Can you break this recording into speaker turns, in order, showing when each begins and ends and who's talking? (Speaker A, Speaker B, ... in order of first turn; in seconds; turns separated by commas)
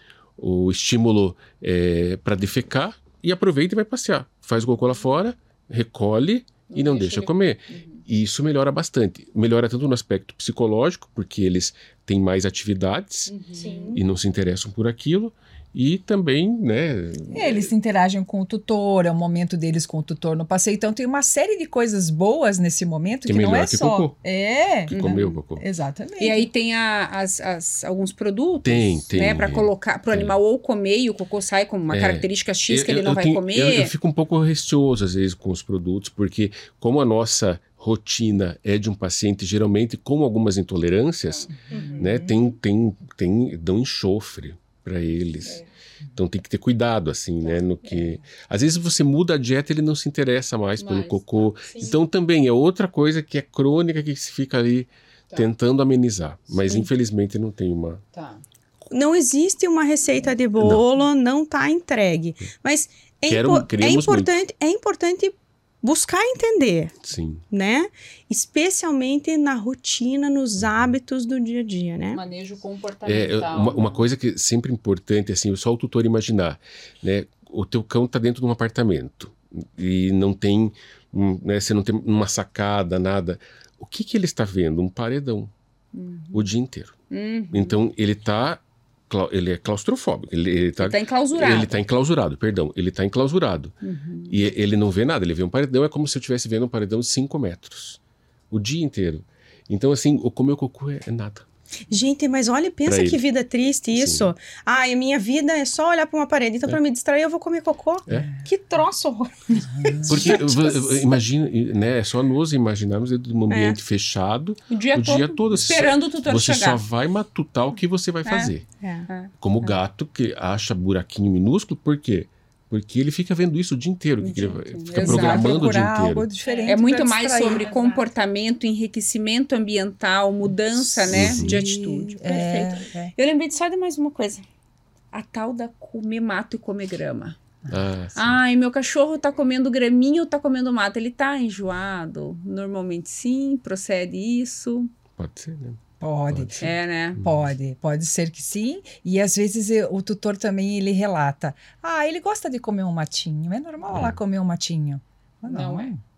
Speaker A: 0.4-13.3, Speaker B: 6.7-8.0, Speaker B: 13.3-13.9, Speaker C: 13.5-14.0, Speaker A: 13.9-17.7, Speaker D: 17.3-26.5, Speaker A: 23.2-24.1, Speaker A: 24.9-25.6, Speaker B: 26.2-33.9, Speaker A: 28.6-30.3, Speaker A: 31.9-45.6, Speaker D: 41.7-42.1, Speaker C: 41.7-42.0, Speaker A: 46.1-58.0, Speaker B: 50.8-51.9, Speaker B: 58.1-58.4, Speaker C: 58.9-66.9, Speaker A: 63.3-64.4, Speaker A: 67.0-67.4, Speaker C: 67.5-72.2, Speaker B: 72.1-74.0, Speaker A: 73.0-85.5, Speaker B: 85.9-86.5, Speaker A: 86.3-87.0, Speaker B: 87.1-87.8, Speaker A: 87.5-93.7, Speaker B: 90.8-91.7, Speaker B: 93.8-94.4, Speaker A: 94.3-98.0, Speaker A: 98.5-101.5, Speaker C: 101.9-109.3, Speaker A: 102.8-103.2, Speaker A: 103.9-104.3, Speaker D: 108.1-108.4, Speaker D: 109.7-110.2, Speaker C: 109.8-111.2, Speaker A: 110.0-118.7, Speaker C: 113.5-113.8, Speaker B: 114.7-116.8, Speaker B: 118.2-118.5, Speaker C: 118.8-119.1, Speaker B: 119.1-119.7, Speaker A: 119.4-126.3, Speaker B: 124.2-125.6, Speaker D: 125.0-127.7, Speaker C: 126.5-126.8, Speaker B: 126.6-134.4, Speaker C: 127.4-128.1, Speaker D: 131.0-133.1, Speaker A: 131.1-131.6, Speaker C: 132.3-132.7, Speaker B: 135.1-137.4, Speaker A: 137.7-138.4, Speaker B: 138.1-144.9, Speaker A: 145.2-146.7, Speaker D: 146.0-156.0, Speaker B: 146.6-147.2, Speaker A: 153.9-154.2, Speaker B: 155.4-155.9